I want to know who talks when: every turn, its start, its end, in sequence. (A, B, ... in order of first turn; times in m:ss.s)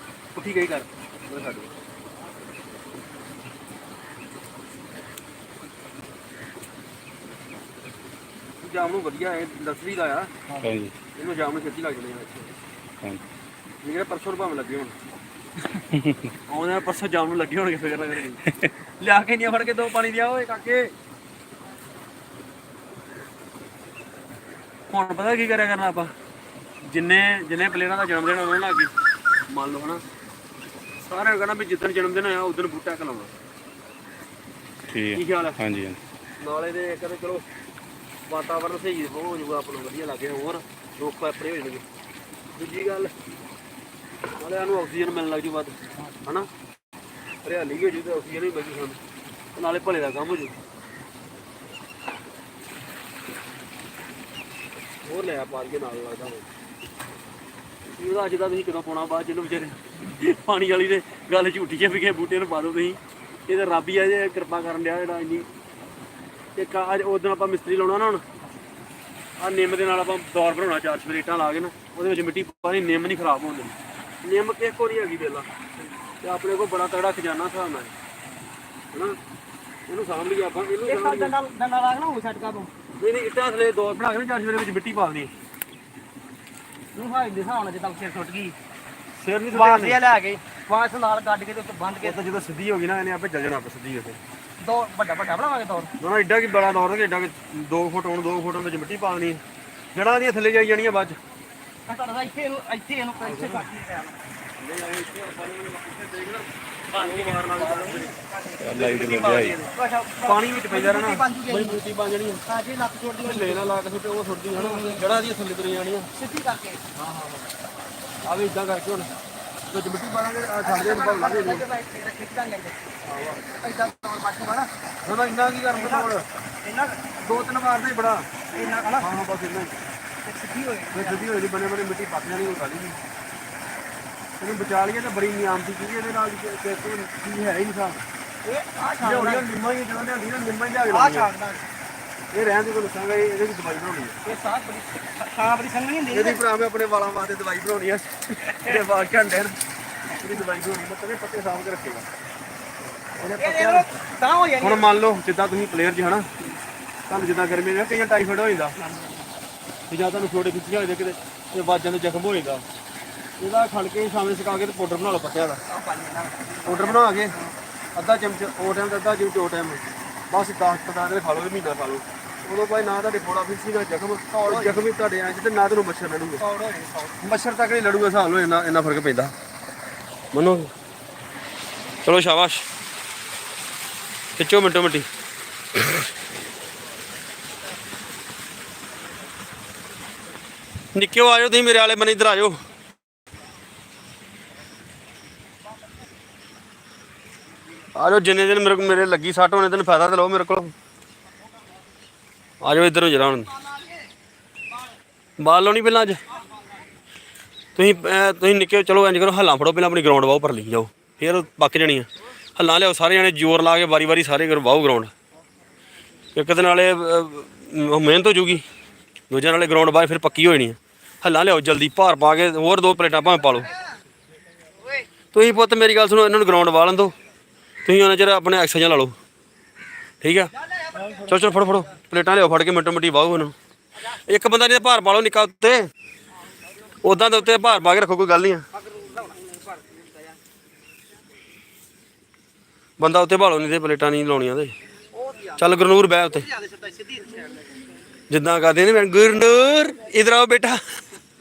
0:00.3-0:01.7 A
0:08.6-0:10.3 A
0:10.6-0:10.9 B
0:11.1-0:12.5 A
0:13.8-0:15.0 A
0:15.9-0:16.3 B
0:16.5-0:20.9 A
0:24.9-0:26.1 A
0:26.8-0:28.9 A
0:29.5-0:30.0 A
0:31.0-0:33.3 A
0:34.9-0:36.0 B
0:35.1-0:35.6 A
0:36.4-0:37.4 A
0:38.3-0:41.8 A
0:42.5-0:43.1 A
0:44.4-0:46.5 A
0:47.4-0:49.0 A
0:49.6-0:50.6 A
0:55.0-0:56.4 A
0:58.0-1:05.5 A
1:06.6-1:08.2 A
1:09.4-1:15.5 A
1:16.2-1:17.9 A
1:19.9-1:21.3 A
1:20.8-1:22.7 C
1:22.9-1:25.3 A
1:26.9-1:28.6 C
1:29.2-1:30.0 A
1:29.5-1:32.2 C
1:32.0-1:34.2 A
1:34.6-1:35.9 C
1:36.0-1:39.4 A
1:39.9-1:41.2 A
1:41.9-1:44.1 C
1:43.2-1:43.6 A
1:44.6-1:48.2 A
1:47.0-1:51.8 C
1:48.6-1:49.6 B
1:48.7-1:49.5 A
1:50.2-1:52.4 A
1:52.4-1:53.7 C
1:53.2-1:56.1 A
1:54.5-1:55.0 C
1:56.2-1:56.8 C
1:57.0-1:57.4 A
1:58.2-1:59.1 A
1:59.7-2:01.6 A
2:00.6-2:02.8 C
2:03.0-2:03.4 A
2:03.4-2:04.7 C
2:05.0-2:06.3 A
2:05.7-2:06.1 C
2:06.6-2:07.2 C
2:07.2-2:08.3 A
2:08.5-2:09.1 C
2:09.0-2:09.8 A
2:10.2-2:11.3 C
2:10.9-2:13.0 A
2:14.4-2:18.1 A
2:18.4-2:19.4 C
2:19.0-2:21.3 A
2:20.9-2:21.6 C
2:22.3-2:24.2 A
2:24.2-2:26.4 C
2:26.1-2:29.6 A
2:28.4-2:28.8 C
2:30.1-2:32.1 A
2:33.2-2:33.9 A
2:33.4-2:34.8 C
2:34.6-2:36.3 A
2:37.1-2:38.8 A
2:38.8-2:39.3 C
2:39.9-2:42.6 A
2:43.4-2:45.6 A
2:45.7-2:47.5 C
2:46.6-2:47.4 A
2:47.9-2:56.4 A
2:54.3-2:54.8 C
2:56.4-2:57.2 C
2:57.2-2:59.3 A
3:00.3-3:00.7 A
3:02.0-3:02.6 A
3:04.4-3:05.1 A
3:10.9-3:12.6 A
3:18.0-3:20.7 A
3:22.6-3:23.5 A
3:25.4-3:26.2 A
3:27.7-3:35.1 A
3:36.3-3:38.6 A
3:39.3-3:43.7 A
3:45.3-3:47.1 A
3:47.8-3:49.1 A
3:50.2-3:50.5 A
3:50.9-3:51.3 C
3:51.2-3:53.5 A
3:54.1-3:55.9 A
3:57.0-3:58.6 A
3:58.8-4:00.3 C
4:03.0-4:04.7 A
4:05.1-4:07.6 C
4:05.6-4:06.5 A
4:08.3-4:10.8 A